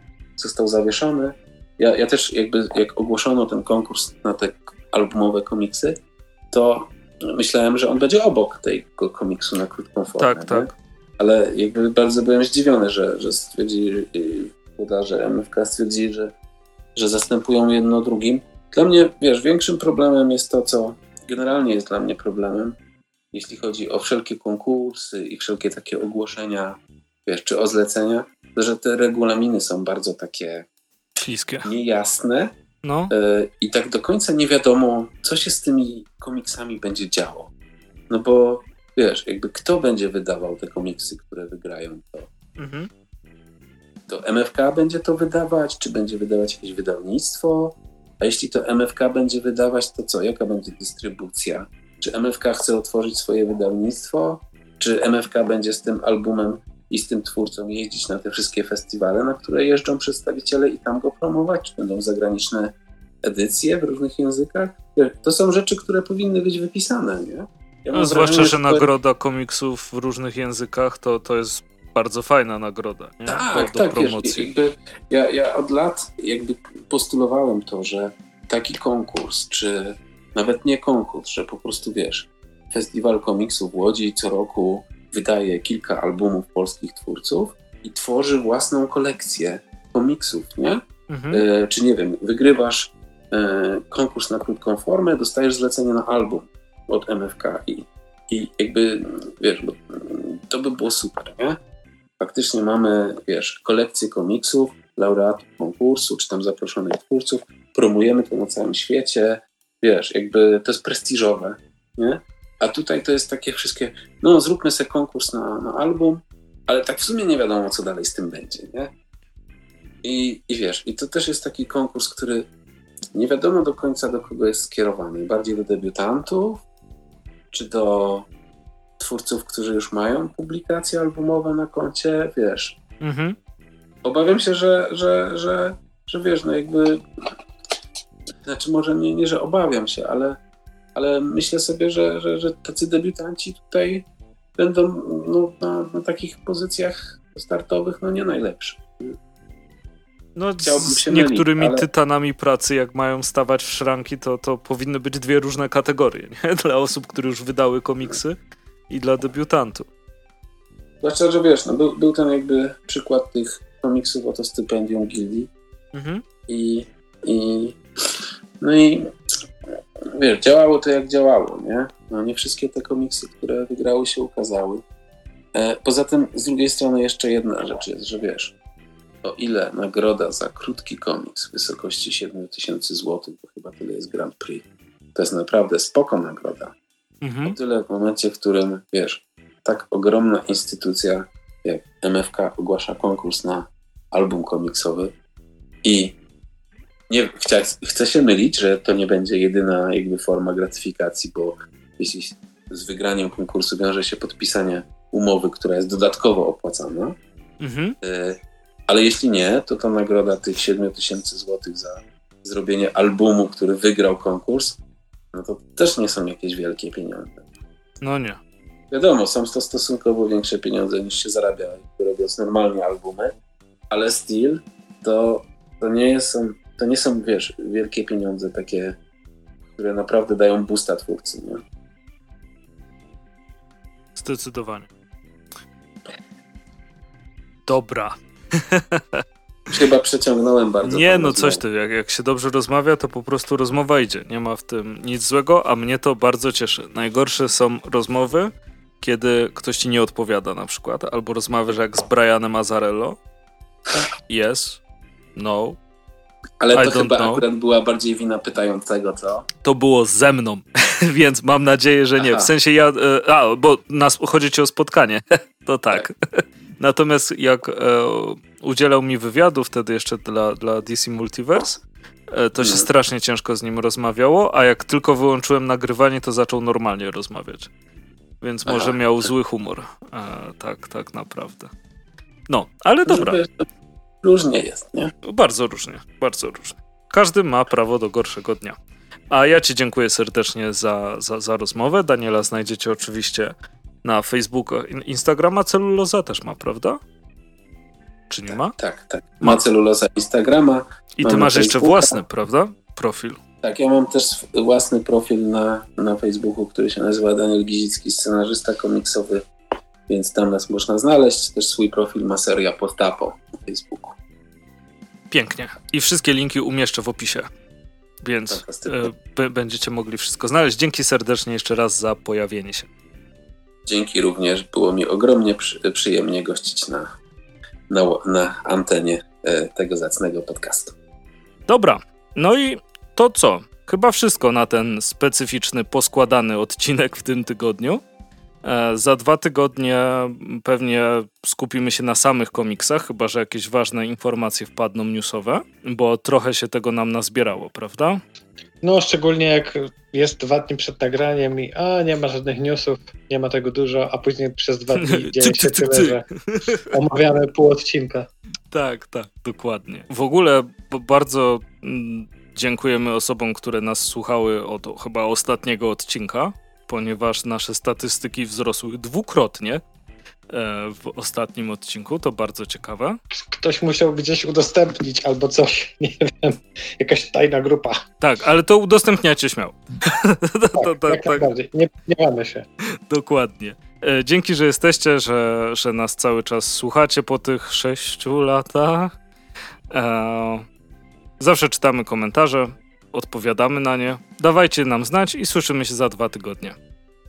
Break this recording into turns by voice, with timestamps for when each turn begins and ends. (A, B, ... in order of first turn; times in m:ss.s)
0:00.4-0:06.0 A
0:06.5-0:16.3 A
0:10.2-0:10.7 B
0:17.0-0:22.8 A
0:23.3-0:30.7 A
0:31.2-0:31.7 B
0:31.7-0:32.5 A
0:32.8-0:33.1 B
0:33.1-0:37.5 A
0:38.1-0:42.3 A
0:42.6-0:42.9 B
0:44.1-1:08.9 A
1:07.9-1:14.5 B
1:13.3-1:41.6 A
1:31.1-1:31.4 B
1:42.2-1:58.9 A
2:00.0-2:02.4 A
2:03.1-2:06.6 A
2:07.5-2:08.3 A
2:09.0-2:12.8 A
2:13.0-2:13.4 B
2:14.0-2:17.3 A
2:18.5-2:20.4 A
2:21.0-2:24.1 A
2:24.6-2:29.2 A
2:30.4-2:38.4 B
2:30.6-2:31.8 A
2:38.9-2:39.9 B
2:41.0-2:45.5 A
2:45.9-2:46.2 B
2:46.5-2:47.8 A
2:48.6-2:49.1 A
2:50.2-2:54.8 A
2:55.6-2:58.6 A
2:59.2-3:06.7 A
3:07.2-3:07.6 B
3:07.5-3:15.1 A
3:15.8-3:16.2 A
3:17.1-3:27.2 A
3:27.6-3:28.0 B
3:28.0-3:34.8 A
3:35.3-3:37.4 A
3:38.0-3:38.4 B
3:38.9-3:43.3 A
3:43.9-3:49.0 A
3:49.8-3:51.6 A
3:54.2-3:54.9 B
3:57.7-3:59.2 B
3:59.7-4:01.6 A
4:00.8-4:13.2 B
4:14.3-4:14.8 B
4:15.4-4:15.8 B
4:16.6-4:19.5 A
4:16.7-4:17.4 B
4:19.6-4:37.7 B
4:22.2-4:22.5 A
4:32.6-4:32.9 A
4:38.4-4:41.7 B
4:38.7-4:39.0 A
4:42.5-4:43.4 B
4:43.1-4:43.7 A
4:44.2-4:45.1 A
4:45.2-4:48.8 B
4:49.3-4:53.5 B
4:54.0-4:57.0 B
4:58.3-4:58.8 B
4:58.5-5:02.2 A
5:01.2-5:03.4 B
5:03.6-5:09.4 A
5:10.1-5:14.2 A
5:15.3-5:17.5 B
5:18.2-5:22.9 B
5:18.5-5:19.1 A
5:23.9-5:27.1 A
5:27.9-5:31.0 A
5:31.7-5:38.0 B
5:38.6-5:48.2 B
5:48.8-5:58.3 C
5:55.0-5:56.9 B
5:58.7-6:09.8 B
6:10.5-6:13.2 B
6:13.3-6:18.0 C
6:18.2-6:21.5 B
6:20.8-6:22.6 C
6:23.1-6:29.1 B
6:29.9-6:30.6 B
6:31.4-6:36.8 B